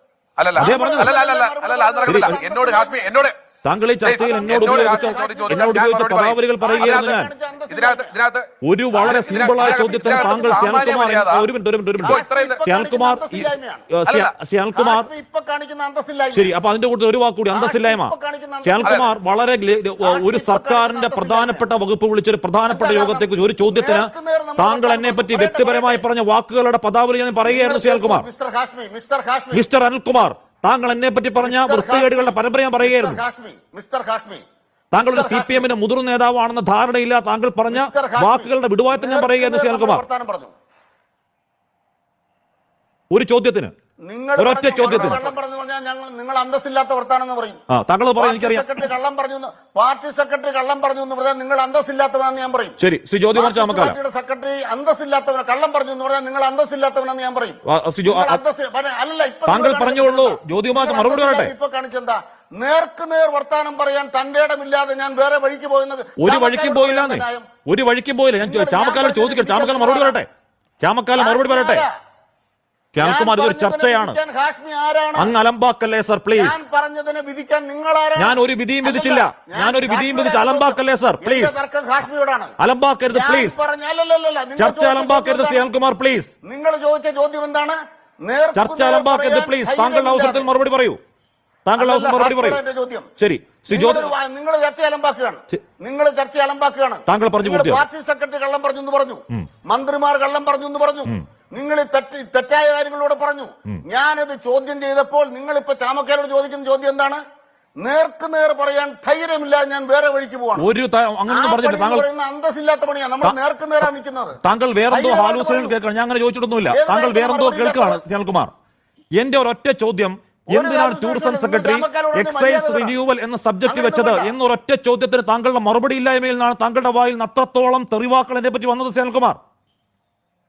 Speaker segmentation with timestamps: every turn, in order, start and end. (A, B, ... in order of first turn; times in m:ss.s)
0:00.4-0:03.3 A
0:00.6-0:01.1 B
0:00.6-0:03.3 C
0:02.1-0:02.4 B
0:03.6-0:07.3 B
0:04.0-0:11.5 A
0:04.1-0:05.9 C
0:06.6-0:08.1 C
0:08.6-0:15.1 B
0:09.0-0:10.8 C
0:12.0-0:13.9 C
0:12.0-0:12.6 A
0:14.1-0:14.3 A
0:14.7-0:16.5 C
0:16.3-0:28.3 B
0:17.5-0:19.0 C
0:18.8-0:19.2 A
0:20.0-0:21.6 C
0:22.7-0:26.0 C
0:27.4-0:29.6 C
0:29.5-0:33.2 B
0:31.4-0:34.4 C
0:34.9-0:40.0 B
0:35.0-0:35.7 C
0:37.7-0:40.5 C
0:43.1-0:43.7 B
0:44.0-0:47.6 C
0:44.4-0:45.3 B
0:44.8-0:45.2 A
0:47.7-0:48.8 B
0:48.2-0:52.8 C
0:52.8-0:54.0 B
0:53.3-1:07.5 C
0:57.7-0:58.4 B
0:59.5-1:01.5 B
1:06.2-1:10.3 B
1:08.4-1:10.2 C
1:10.8-1:11.8 B
1:11.2-1:11.9 C
1:12.9-1:14.2 B
1:13.0-1:15.3 C
1:15.2-1:16.6 B
1:16.4-1:22.6 C
1:18.2-1:21.6 B
1:22.6-1:23.6 B
1:23.1-1:25.7 C
1:24.6-1:26.3 B
1:26.4-1:30.5 C
1:28.6-1:31.0 B
1:31.6-1:32.6 B
1:31.8-1:33.1 C
1:33.2-1:34.1 B
1:33.7-1:47.2 C
1:37.1-1:37.8 B
1:47.8-1:50.7 C
1:50.6-1:52.1 B
1:51.3-1:54.4 C
1:53.2-1:53.9 B
1:54.4-1:58.5 B
1:54.9-1:55.8 C
1:56.7-1:58.0 C
1:59.2-2:09.4 B
2:00.5-2:03.0 C
2:03.6-2:04.3 C